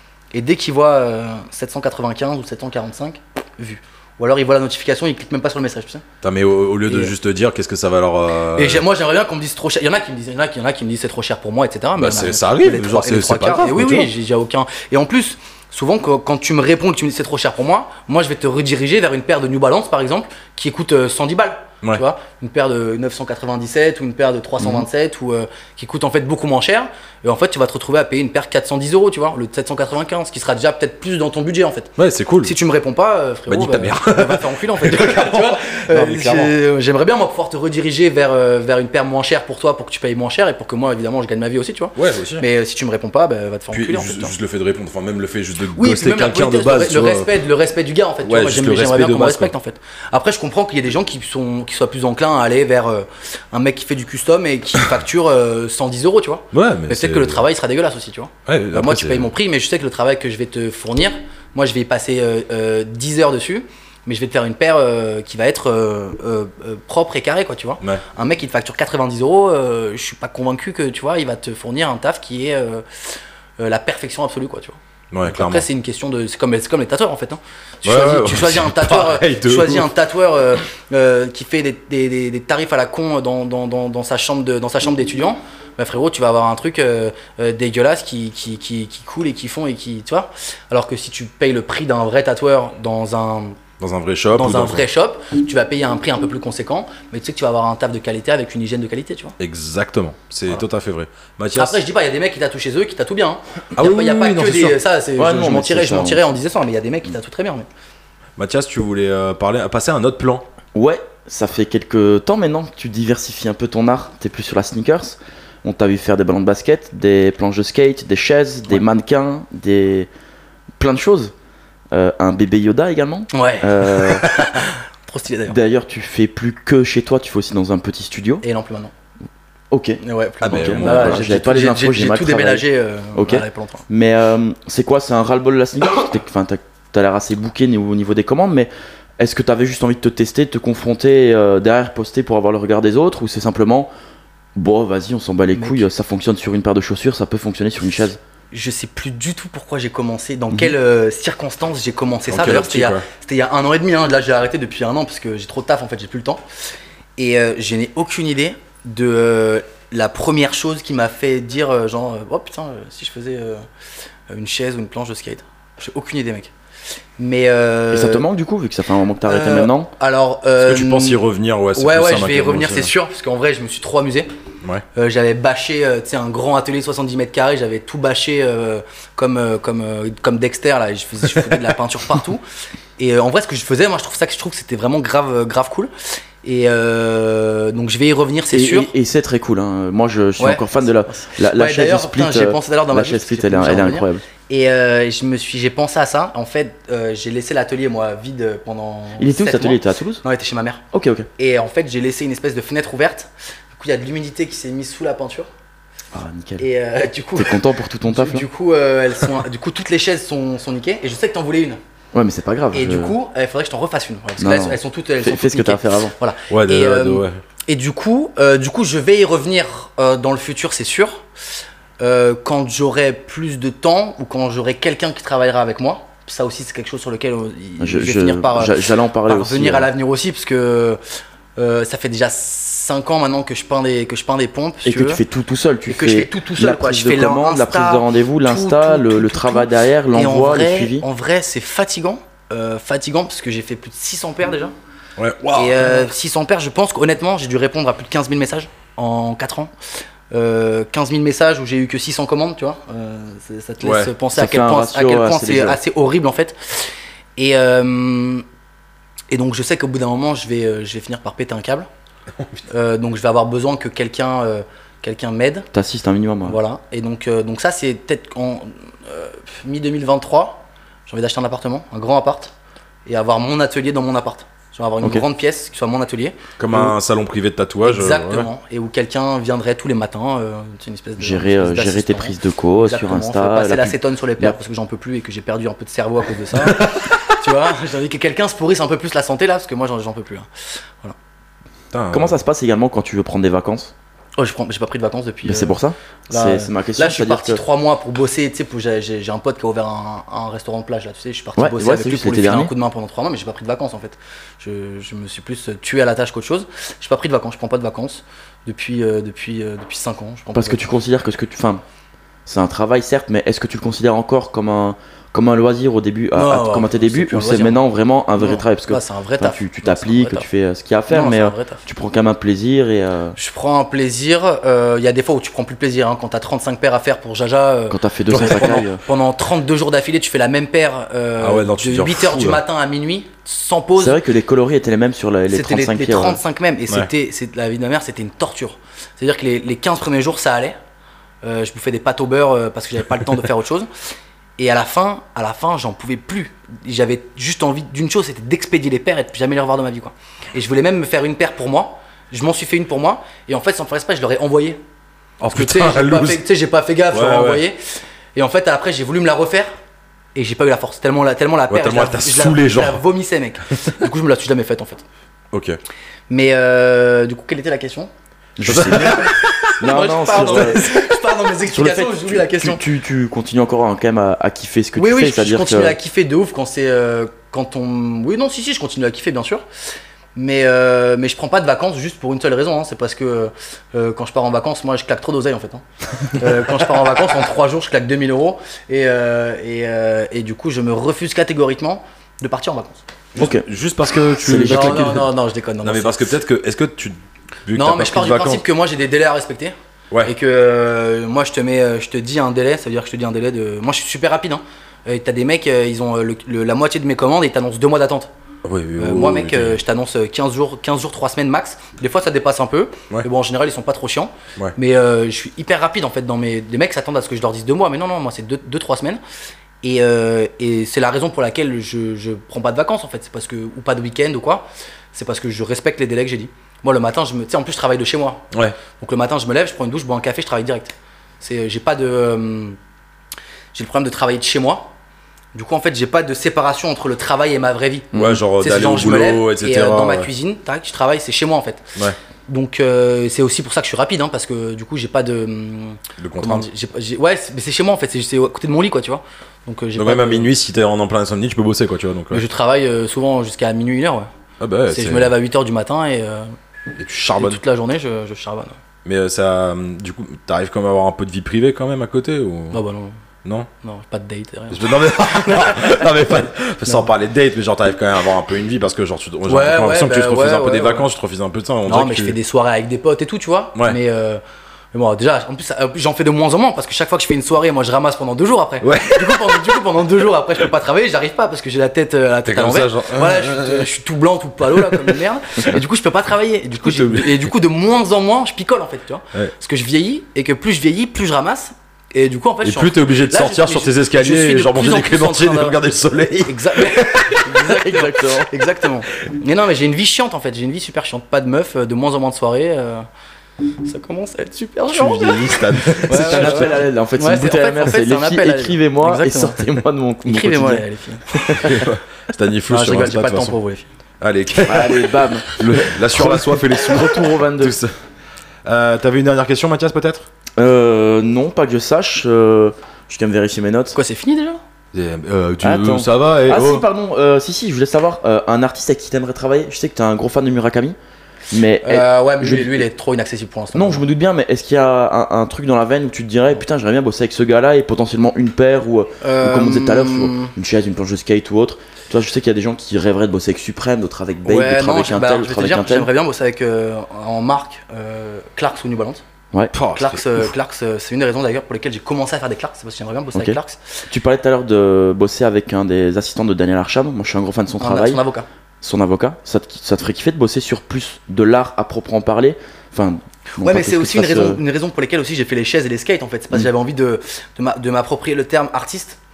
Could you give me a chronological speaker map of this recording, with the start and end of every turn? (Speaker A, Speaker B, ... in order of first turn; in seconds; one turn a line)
Speaker A: 0.3-6.0
Speaker B: 6.2-8.8
Speaker A: 8.6-44.4
Speaker B: 12.0-14.1
Speaker B: 32.0-32.5
Speaker B: 33.5-36.5
Speaker B: 42.0-42.5
Speaker B: 43.7-47.3
Speaker A: 45.8-93.6
Speaker B: 48.2-49.5
Speaker B: 56.5-57.4
Speaker B: 58.5-59.3
Speaker B: 75.1-75.7
Speaker B: 77.8-79.9
Speaker B: 93.8-94.9
Speaker A: 94.3-99.4
Speaker B: 99.4-101.8
Speaker A: 101.5-107.7
Speaker B: 103.8-104.8
Speaker C: 105.2-106.3
Speaker B: 108.4-110.5
Speaker C: 110.8-120.1
Speaker C: 120.8-121.3
Speaker C: 121.9-124.3
Speaker A: 123.3-125.6
Speaker C: 125.5-128.4
Speaker A: 128.4-128.9
Speaker C: 129.7-143.9
Speaker A: 130.0-133.8
Speaker B: 130.4-131.2
Speaker C: 144.6-148.2
Speaker A: 145.5-145.8
Speaker A: 148.5-156.4
Speaker B: 152.3-153.1
Speaker A: 157.2-163.7
Speaker A: 164.3-166.5
Speaker A: 167.2-168.2
Speaker C: 167.9-169.9
Speaker A: 169.3-171.2
Speaker B: 170.6-172.9
Speaker A: 171.8-174.3
Speaker A: 174.9-182.4
Speaker A: 183.0-185.9
Speaker A: 186.4-188.9
Speaker C: 188.5-194.2
Speaker A: 190.4-200.8
Speaker C: 199.2-200.2
Speaker C: 200.9-201.3
Speaker A: 201.4-205.5
Speaker C: 206.1-206.7
Speaker A: 206.6-211.8
Speaker C: 207.4-208.5
Speaker C: 212.1-213.1
Speaker A: 212.7-221.2
Speaker C: 214.4-216.1
Speaker B: 216.5-217.4
Speaker A: 222.0-228.8
Speaker C: 227.8-229.9
Speaker A: 229.3-231.0
Speaker A: 231.6-235.2
Speaker C: 234.8-241.1
Speaker A: 235.9-244.7
Speaker B: 245.2-246.1
Speaker A: 245.6-249.7
Speaker A: 250.3-258.4
Speaker B: 253.8-254.1
Speaker C: 254.3-255.8
Speaker A: 259.3-261.9
Speaker A: 262.7-265.7
Speaker C: 265.7-266.6
Speaker A: 266.4-272.5
Speaker A: 273.1-276.4
Speaker B: 276.6-278.5
Speaker A: 277.9-290.5
Speaker C: 281.2-284.6
Speaker B: 286.6-287.3
Speaker B: 291.9-292.4
Speaker C: 292.1-293.9
Speaker A: 294.4-295.8
Speaker C: 295.4-297.6
Speaker A: 296.3-310.9
Speaker C: 301.6-302.7
Speaker C: 310.5-311.8
Speaker C: 312.5-323.4
Speaker A: 316.4-317.8
Speaker A: 318.4-320.5
Speaker A: 321.1-321.9
Speaker A: 323.4-334.2
Speaker C: 327.9-329.0
Speaker B: 328.3-328.8
Speaker B: 331.4-332.6
Speaker C: 334.0-336.4
Speaker A: 335.5-340.8
Speaker A: 341.4-343.9
Speaker A: 344.6-354.8
Speaker B: 355.4-356.4
Speaker A: 355.5-357.8
Speaker B: 357.1-357.6
Speaker A: 358.4-359.7
Speaker A: 360.4-365.0
Speaker B: 361.7-363.0
Speaker B: 365.5-365.8
Speaker A: 366.3-368.1
Speaker C: 368.6-371.0
Speaker B: 368.6-369.7
Speaker A: 369.7-372.8
Speaker C: 371.7-376.0
Speaker A: 375.0-379.6
Speaker A: 380.4-393.0
Speaker B: 393.4-395.3
Speaker C: 393.4-393.7
Speaker C: 394.4-395.2
Speaker A: 394.7-396.3
Speaker B: 395.8-397.2
Speaker B: 397.7-398.6
Speaker A: 397.8-408.3
Speaker B: 408.6-409.8
Speaker A: 409.0-419.2
Speaker A: 419.8-432.8
Speaker A: 433.7-434.9
Speaker A: 435.5-441.9
Speaker B: 438.1-440.3
Speaker A: 442.5-450.5
Speaker B: 446.2-446.7
Speaker B: 450.0-452.4
Speaker A: 452.3-454.3
Speaker B: 454.6-455.3
Speaker A: 454.9-456.5
Speaker B: 457.0-457.6
Speaker A: 457.4-458.8
Speaker B: 459.1-462.8
Speaker A: 462.7-463.2
Speaker B: 463.4-463.7
Speaker A: 463.8-466.0
Speaker B: 464.7-472.4
Speaker A: 469.5-471.1
Speaker A: 471.9-474.4
Speaker A: 474.9-495.8
Speaker B: 478.8-480.1
Speaker B: 482.5-483.9
Speaker B: 484.7-485.2
Speaker B: 486.8-487.5
Speaker B: 492.6-497.5
Speaker A: 496.5-503.1
Speaker C: 497.4-498.5
Speaker A: 503.8-509.7
Speaker B: 504.9-506.8
Speaker C: 506.1-511.9
Speaker A: 510.2-511.8
Speaker B: 511.6-513.5
Speaker A: 512.7-513.9
Speaker B: 514.2-517.9
Speaker C: 514.6-517.8
Speaker B: 518.7-520.3
Speaker C: 520.6-524.0
Speaker A: 523.9-524.6
Speaker B: 524.9-526.8
Speaker C: 525.6-531.0
Speaker C: 531.5-532.9
Speaker A: 531.8-534.0
Speaker C: 533.7-546.1
Speaker A: 539.2-540.5
Speaker A: 544.5-549.2
Speaker B: 549.7-550.5
Speaker A: 549.9-554.0
Speaker C: 554.1-558.2
Speaker A: 557.8-558.5
Speaker C: 558.8-564.6
Speaker A: 563.6-569.2